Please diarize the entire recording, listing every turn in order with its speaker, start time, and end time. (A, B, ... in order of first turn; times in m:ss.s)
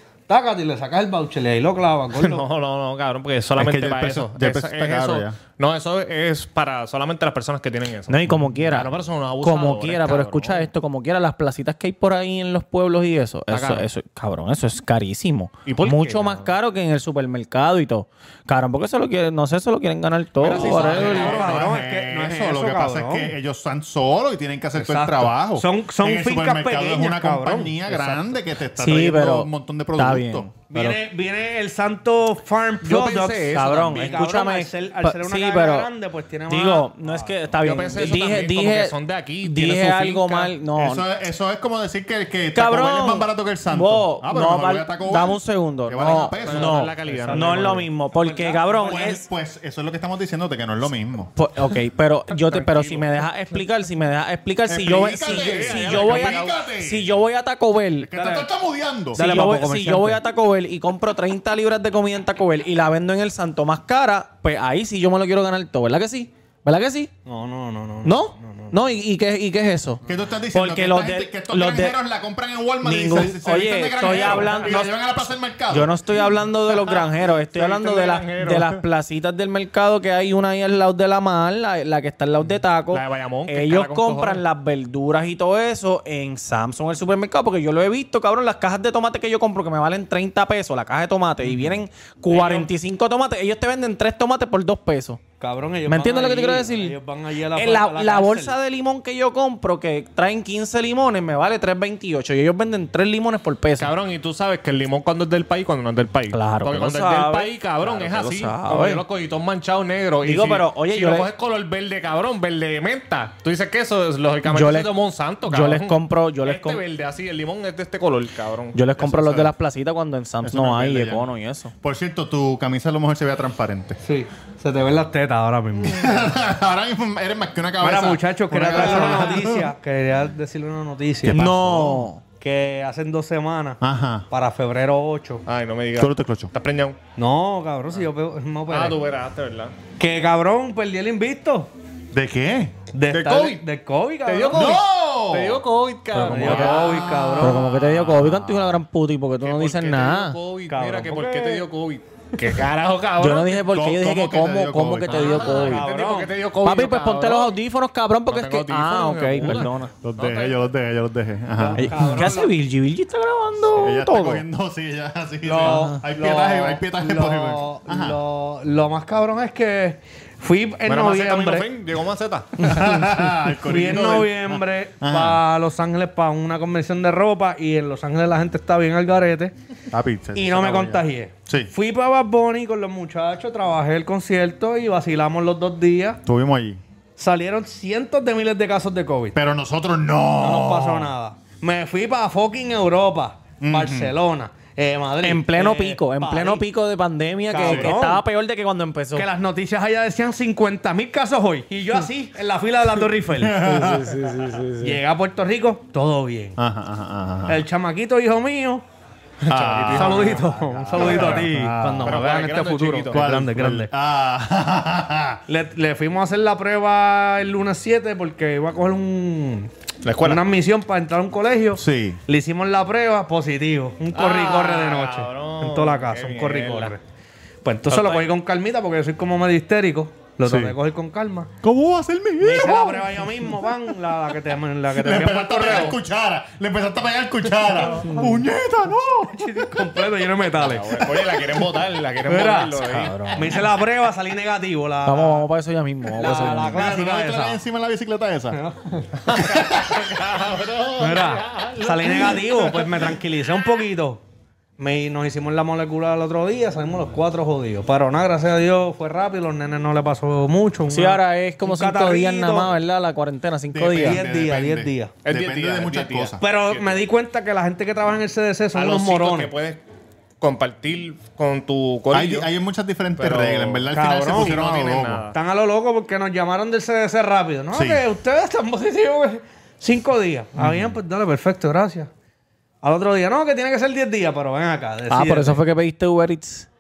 0:00.3-0:02.5 A
0:02.2-0:10.7 B
0:03.6-0:05.4 C
0:08.1-0:08.9 D
0:09.4-0:21.3 D
0:13.5-0:13.9 B
0:15.7-0:16.5 B
0:20.4-0:21.7 B
0:20.4-0:30.6 C
0:20.6-0:23.3 A
0:24.8-0:28.4 A
0:28.8-0:31.0 D
0:30.7-0:38.2 A
0:32.8-0:34.2 B
0:33.5-0:35.9 D
0:36.5-0:41.1 D
0:37.6-0:40.6 B
0:40.8-0:46.9 C
0:42.5-0:49.2 D
0:46.4-0:47.8 B
0:46.4-0:49.2 A
0:48.8-0:51.3 C
0:51.4-0:58.1 D
0:52.3-0:53.1 B
0:54.7-0:57.1 C
0:55.2-0:56.6 B
0:58.0-0:59.2 C
0:58.1-0:58.5 A
0:59.1-1:00.2 A
0:59.1-1:07.1 D
1:07.2-1:08.8 A
1:08.0-1:10.0 D
1:10.0-1:15.9 C
1:10.5-1:12.0 D
1:12.8-1:14.9 D
1:14.2-1:14.5 B
1:15.7-1:35.2 D
1:16.7-1:18.8 B
1:22.9-1:24.4 B
1:31.5-1:31.8 C
1:32.3-1:32.7 A
1:35.4-1:38.6 A
1:35.9-1:37.0 D
1:37.5-1:43.9 D
1:43.8-1:58.8 B
1:46.3-1:49.0 D
1:50.2-1:51.3 D
1:54.4-1:54.9 D
1:55.5-1:56.8 D
1:58.7-2:01.7 D
1:59.0-1:59.5 C
2:00.4-2:01.3 C
2:01.8-2:04.0 C
2:04.0-2:06.3 A
2:05.8-2:09.7 C
2:07.8-2:15.4 A
2:11.3-2:12.0 C
2:11.3-2:12.2 D
2:13.8-2:14.3 C
2:15.5-2:17.0 B
2:16.0-2:16.5 C
2:17.2-2:19.0 A
2:18.7-2:19.7 B
2:20.0-2:21.7 A
2:22.1-2:22.8 C
2:22.9-2:24.8 A
2:23.1-2:23.6 B
2:24.2-2:27.1 B
2:24.5-2:25.6 C
2:26.1-2:26.8 D
2:26.2-2:27.7 A
2:26.6-2:28.8 C
2:27.4-2:30.4 D
2:29.4-2:33.7 B
2:30.7-2:31.7 A
2:33.2-2:35.9 D
2:33.7-2:35.6 C
2:35.1-2:37.6 B
2:35.4-2:36.4 A
2:36.6-2:39.9 D
2:38.3-2:40.6 B
2:40.0-2:42.3 C
2:41.6-2:42.5 A
2:41.8-2:44.4 D
2:43.7-2:48.2 C
2:45.4-2:51.7 A
2:45.7-2:46.0 D
2:50.9-2:52.7 B
2:52.6-2:55.4 C
2:53.5-2:59.5 A
2:59.9-3:01.7 C
3:00.3-3:06.2 A
3:06.3-3:06.8 C
3:07.2-3:09.4 A
3:09.3-3:11.1 C
3:10.4-3:16.6 A
3:13.6-3:14.2 C
3:15.2-3:19.3 D
3:17.5-3:18.2 A
3:17.6-3:18.0 C
3:19.1-3:24.0 A
3:23.3-3:24.6 C
3:23.6-3:25.0 D
3:24.8-3:26.6 A
3:26.6-3:27.6 C
3:27.5-3:28.8 A
3:29.5-3:31.5 B
3:29.5-3:32.2 C
3:29.9-3:33.9 A
3:31.6-3:32.2 D
3:32.0-3:33.3 B
3:33.1-3:35.4 C
3:35.5-3:39.7 A
3:40.0-3:40.5 B
3:40.2-3:47.0 A
3:41.8-3:42.2 C
3:44.1-3:47.0 B
3:47.6-3:51.5 A
3:47.9-3:48.2 B
3:50.4-3:50.8 C
3:51.6-3:54.0 C
3:52.4-3:56.0 A
3:54.9-4:00.3 C
3:59.3-4:01.4 A
4:00.6-4:03.3 B
4:02.2-4:05.5 A
4:02.8-4:03.6 D
4:05.0-4:06.8 D
4:06.2-4:07.6 A
4:06.3-4:08.6 C
4:08.5-4:09.4 A
4:09.3-4:12.9 B
4:09.4-4:10.1 C
4:11.0-4:14.2 A
4:14.8-4:22.8 A
4:20.9-4:24.2 D
4:23.7-4:26.4 C
4:24.0-4:25.1 A
4:25.2-4:27.0 B
4:26.4-4:29.5 A
4:28.7-4:29.8 B
4:30.4-4:32.5 B
4:32.1-4:35.3 C
4:33.2-4:35.4 B
4:33.9-4:34.6 A
4:35.3-4:42.1 A
4:37.7-4:38.0 C
4:40.6-4:41.0 C
4:42.8-4:45.6 A
4:45.1-4:46.7 D